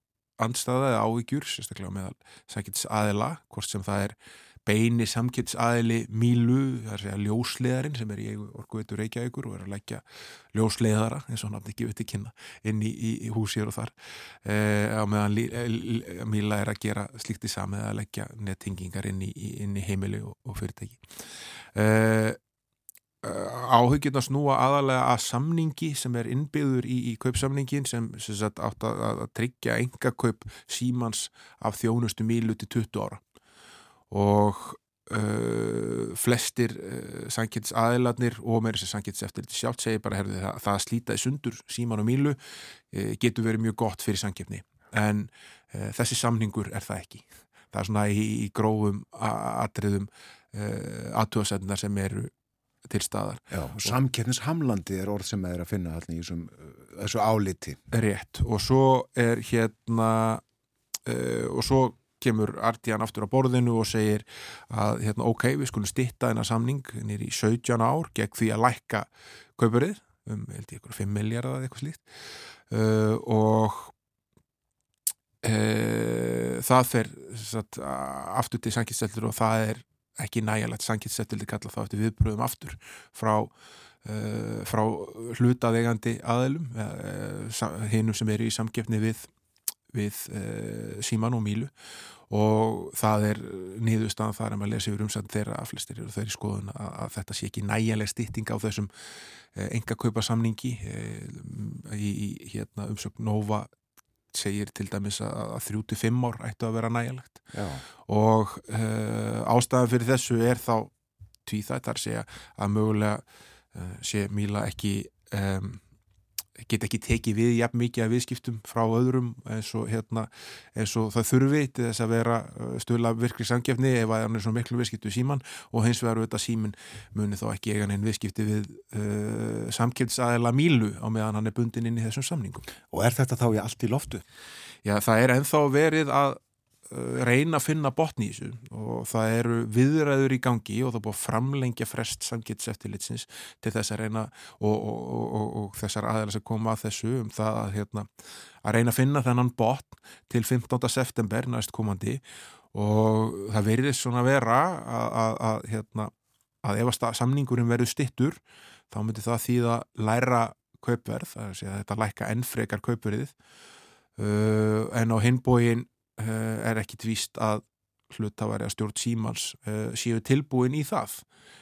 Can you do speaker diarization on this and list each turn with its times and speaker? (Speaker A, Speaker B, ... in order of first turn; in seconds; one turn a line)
Speaker A: 0.4-13.9
Speaker A: 14.4-21.0
Speaker A: 21.7-22.4
Speaker A: 23.2-33.2
Speaker A: 34.1-42.4
Speaker A: 42.9-52.3
Speaker A: 52.8-54.0
Speaker B: 53.5-57.8
Speaker A: 57.9-60.4
Speaker A: 61.0-72.0
Speaker A: 72.7-73.9
Speaker A: 75.4-83.5
Speaker A: 84.0-89.3
Speaker A: 89.9-91.7
Speaker A: 92.3-98.9
Speaker A: 99.5-103.7
Speaker A: 104.3-107.4
Speaker B: 107.5-107.8
Speaker A: 108.0-110.9
Speaker A: 111.4-113.2
Speaker A: 113.7-115.8
Speaker A: 116.6-132.7
Speaker B: 132.9-134.2
Speaker A: 134.8-148.1
Speaker A: 148.6-152.2
Speaker A: 152.7-158.4
Speaker A: 158.9-163.3
Speaker A: 164.2-171.2